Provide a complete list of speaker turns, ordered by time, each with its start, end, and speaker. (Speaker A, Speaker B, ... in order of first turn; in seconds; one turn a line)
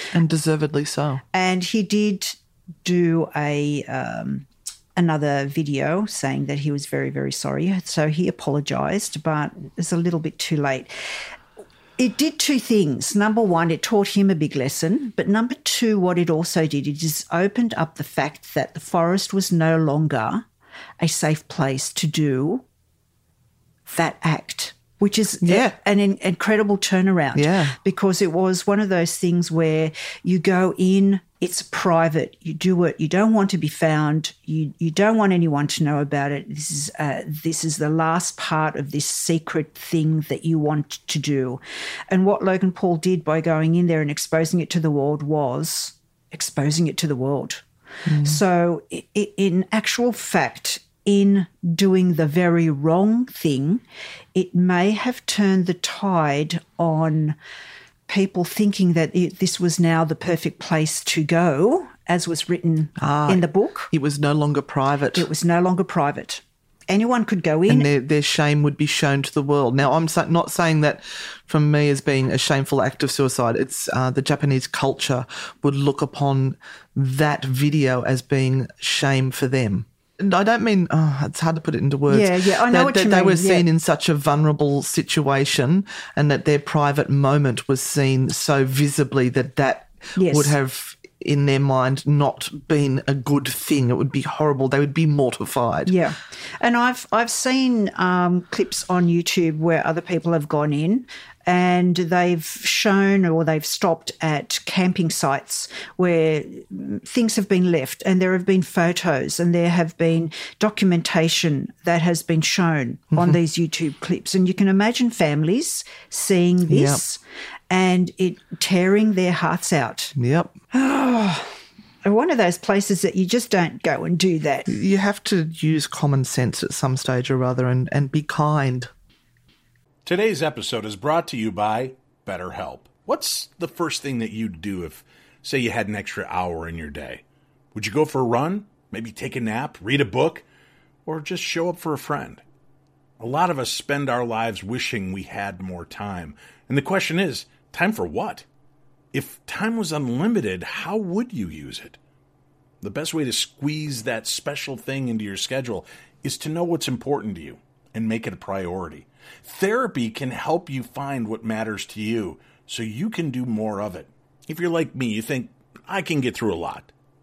Speaker A: 0.1-1.2
Speaker B: 1.3-10.9
Speaker B: 12.0-20.4
Speaker B: 21.0-22.6
Speaker B: 23.9-47.6
Speaker A: 25.4-25.8
Speaker A: 27.3-27.8
Speaker A: 48.0-48.4
Speaker B: 48.2-53.8
Speaker B: 54.3-57.4
Speaker B: 58.1-63.9
Speaker A: 63.0-65.3
Speaker B: 65.1-67.9
Speaker A: 67.7-95.9
Speaker B: 82.1-83.7
Speaker B: 90.2-90.5
Speaker B: 95.8-117.2
Speaker A: 113.1-113.4
Speaker A: 116.7-117.0
Speaker B: 117.7-120.1
Speaker A: 120.2-120.5
Speaker B: 120.7-121.5
Speaker B: 122.0-124.7
Speaker A: 124.7-128.9
Speaker C: 130.0-137.2
Speaker C: 137.7-140.4
Speaker C: 141.0-142.4
Speaker C: 143.2-148.4
Speaker C: 149.1-152.0
Speaker C: 152.8-166.9